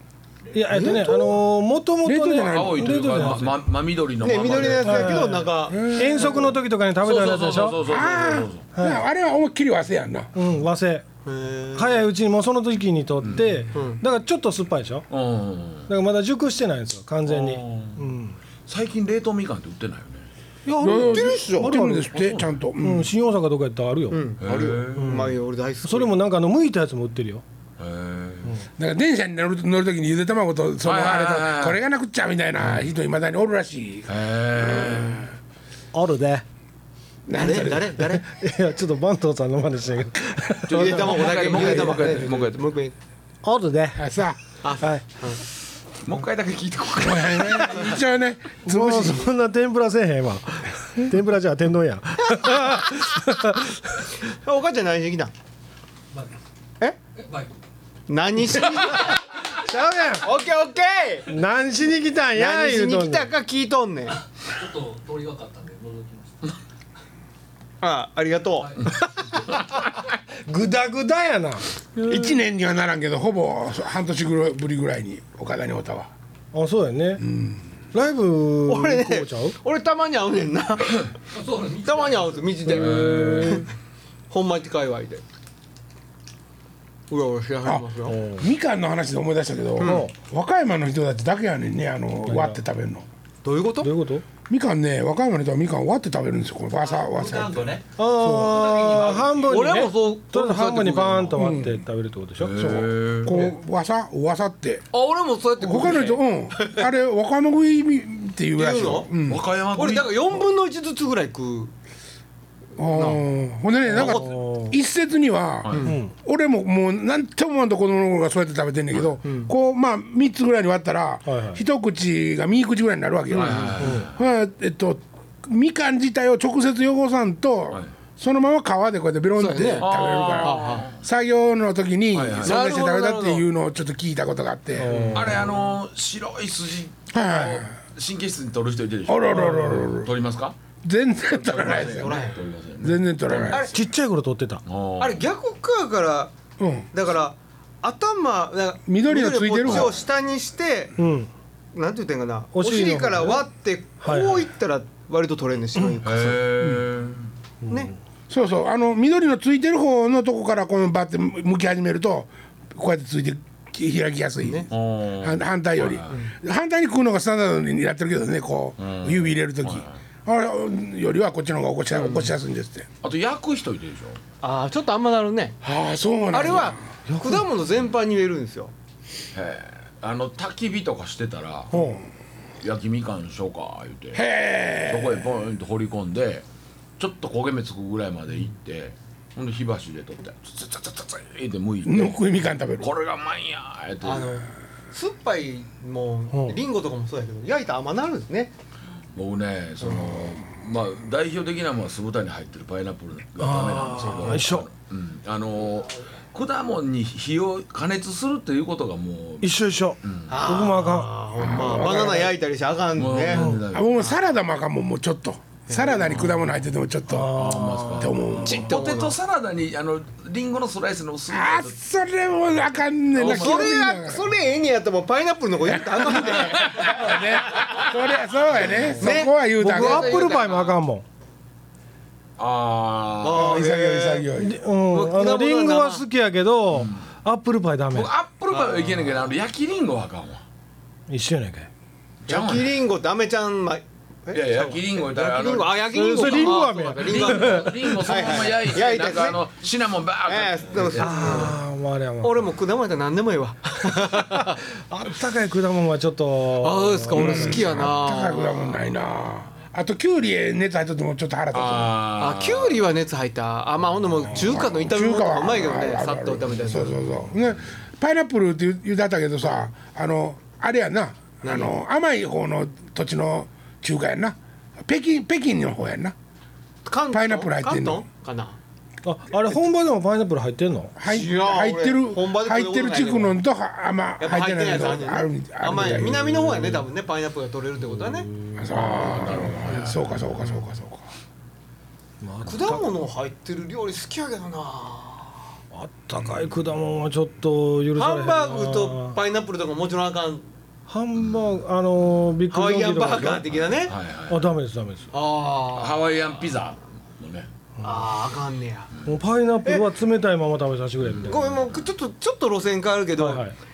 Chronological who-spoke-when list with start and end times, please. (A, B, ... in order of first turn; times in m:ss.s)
0:00.5-0:03.6 A
0:00.7-0:01.4 B
0:02.0-0:03.2 B
0:02.4-0:05.3 C
0:04.2-0:06.4 D
0:04.6-0:07.8 A
0:05.7-0:06.5 B
0:07.0-0:08.6 C
0:07.8-0:10.3 B
0:08.7-0:09.0 A
0:10.3-0:11.0 A
0:11.2-0:12.0 D
0:11.7-0:15.1 A
0:13.7-0:14.0 D
0:15.1-0:15.9 C
0:15.9-0:18.4 A
0:17.3-0:18.1 C
0:18.7-0:20.3 C
0:20.6-0:22.2 A
0:20.8-0:23.1 B
0:21.0-0:21.7 D
0:22.2-0:22.4 C
0:22.8-0:24.2 A
0:24.1-0:26.1 D
0:24.4-0:25.3 C
0:25.0-0:27.4 A
0:27.8-0:28.6 C
0:28.8-0:35.2 B
0:30.8-0:31.8 C
0:34.1-0:35.3 C
0:35.9-0:36.4 A
0:37.3-0:37.9 B
0:37.3-0:38.2 D
0:38.0-0:42.2 A
0:40.6-0:42.6 C
0:40.7-0:42.9 D
0:43.4-0:44.1 A
0:44.0-0:44.4 B
0:44.6-0:45.4 D
0:46.0-0:47.9 C
0:47.0-0:49.3 B
0:48.6-0:54.0 A
0:52.3-0:52.8 D
0:54.3-0:55.3 D
0:57.2-0:57.5 E
0:58.1-0:59.2 D
0:59.6-1:00.3 A
1:00.2-1:01.3 D
1:01.3-1:03.3 A
1:02.4-1:04.2 D
1:04.4-1:06.5 E
1:07.8-1:08.8 D
1:10.4-1:12.3 A
1:12.0-1:16.1 B
1:16.5-1:17.2 A
1:17.2-1:17.6 B
1:17.9-1:19.6 A
1:18.7-1:21.1 D
1:21.3-1:22.4 E
1:21.8-1:23.7 D
1:22.6-1:23.7 C
1:22.8-1:23.6 A
1:24.3-1:25.2 D
1:27.1-1:28.2 D
1:27.6-1:33.0 B
1:28.1-1:28.5 A
1:29.8-1:30.0 D
1:29.8-1:30.1 A
1:32.2-1:32.6 A
1:33.4-1:33.9 D
1:33.8-1:34.2 A
1:34.5-1:37.6 B
1:36.8-1:39.8 E
1:38.0-1:42.6 A
1:39.5-1:41.4 D
1:41.4-1:41.8 B
1:42.4-1:43.4 C
1:42.5-1:44.8 B
1:44.9-1:46.8 D
1:45.6-1:49.4 B
1:48.6-1:49.1 D
1:49.3-1:50.4 C
1:49.7-1:51.7 D
1:52.8-2:15.2 B
1:52.9-1:53.2 D
1:53.9-1:54.4 D
1:53.9-1:54.8 A
1:55.6-1:55.9 C
1:55.8-1:56.1 A
1:59.2-1:59.5 D
2:01.2-2:01.6 A
2:03.3-2:03.9 D
2:03.3-2:04.2 C
2:03.8-2:04.0 A
2:09.4-2:09.9 D
2:09.8-2:11.0 C
2:10.4-2:10.9 D
2:12.1-2:12.6 C
2:12.4-2:13.4 D
2:14.8-2:15.4 A
2:14.8-2:15.5 D
2:15.1-2:20.5 C
2:17.1-2:17.7 B
2:19.1-2:20.1 B
2:19.3-2:19.8 A
2:20.8-2:23.6 B
2:21.4-2:23.8 C
2:21.9-2:22.4 D
2:23.5-2:23.8 D
2:23.7-2:24.6 A
2:24.6-2:25.2 C
2:25.0-2:26.3 D
2:26.6-2:26.9 B
2:26.9-2:30.9 D
2:28.9-2:29.9 B
2:29.6-2:30.0 C
2:31.0-2:31.3 A
2:31.7-2:36.5 D
2:32.5-2:33.5 A
2:34.0-2:34.5 A
2:36.0-2:37.3 C
2:36.6-2:36.8 B
2:37.6-2:38.0 A
2:38.3-2:44.7 B
2:44.4-2:44.7 D
2:44.7-2:46.2 C
2:45.2-2:52.9 B
2:48.8-2:50.0 C
2:51.9-2:52.3 D
2:53.0-2:54.2 C
2:54.4-2:55.6 D
2:55.6-2:56.8 B
2:56.3-2:58.7 D
2:57.1-2:57.4 A
2:59.3-3:01.7 C
3:01.7-3:02.0 A
3:02.6-3:04.2 C
3:04.1-3:05.3 B
3:04.9-3:06.4 C
3:07.0-3:14.5 C
3:11.8-3:12.9 B
3:14.0-3:18.5 D
3:16.3-3:16.6 A
3:19.1-3:30.4 C
3:23.4-3:24.7 A
3:23.9-3:24.4 D
3:29.4-3:31.2 A
3:30.3-3:33.5 D
3:31.4-3:32.4 B
3:32.9-3:34.0 C
3:33.3-3:33.6 A
3:33.7-3:38.7 B
3:35.7-3:36.0 D
3:36.0-3:36.4 C
3:37.1-3:38.1 A
3:37.2-3:41.7 C
3:38.4-3:39.2 D
3:41.3-3:44.3 B
3:43.1-3:43.8 C
3:43.2-3:47.9 D
3:45.7-3:50.1 B
3:46.4-3:47.0 C
3:48.5-3:50.5 D
3:48.6-3:49.0 C
3:49.1-3:51.0 A
3:50.2-3:50.5 C
3:52.4-3:53.6 C
3:53.2-3:54.3 D
3:53.3-3:54.6 B
3:54.4-3:58.1 A
3:54.9-3:56.0 D
3:56.7-3:57.0 C
3:57.9-4:00.4 C
3:58.5-3:59.2 D
4:01.1-4:01.7 A
4:02.3-4:02.8 C
4:02.3-4:09.4 D
4:04.3-4:11.4 C
4:05.9-4:08.1 A
4:10.2-4:11.6 D
4:10.9-4:12.5 A
4:12.2-4:14.6 D
4:14.0-4:17.7 A
4:16.6-4:18.8 D
4:17.1-4:22.0 B
4:21.5-4:22.9 C
4:22.2-4:27.0 D
4:24.3-4:36.1 B
4:31.4-4:31.7 D
4:36.8-4:38.6 D
4:37.1-4:38.0 B
4:39.0-4:41.0 A
4:41.0-4:46.8 B
4:41.0-4:43.4 D
4:44.2-4:48.3 D
4:46.2-4:46.8 A
4:47.9-4:49.3 A
4:48.6-4:51.1 B
4:48.9-4:50.0 C
4:49.6-4:50.0 D
4:52.2-4:52.9 A
4:52.4-4:55.5 D
4:55.7-4:59.2 A
4:58.0-5:00.4 D
5:00.9-5:03.6 A
5:01.2-5:01.5 C
5:02.5-5:03.9 D
5:03.7-5:04.5 C
5:04.3-5:05.1 A
5:05.1-5:06.0 D
5:05.7-5:07.5 C
5:07.8-5:08.1 A
5:07.8-5:08.9 D
5:09.0-5:11.4 A
5:11.0-5:11.9 C
5:11.2-5:13.5 D
5:13.2-5:13.5 A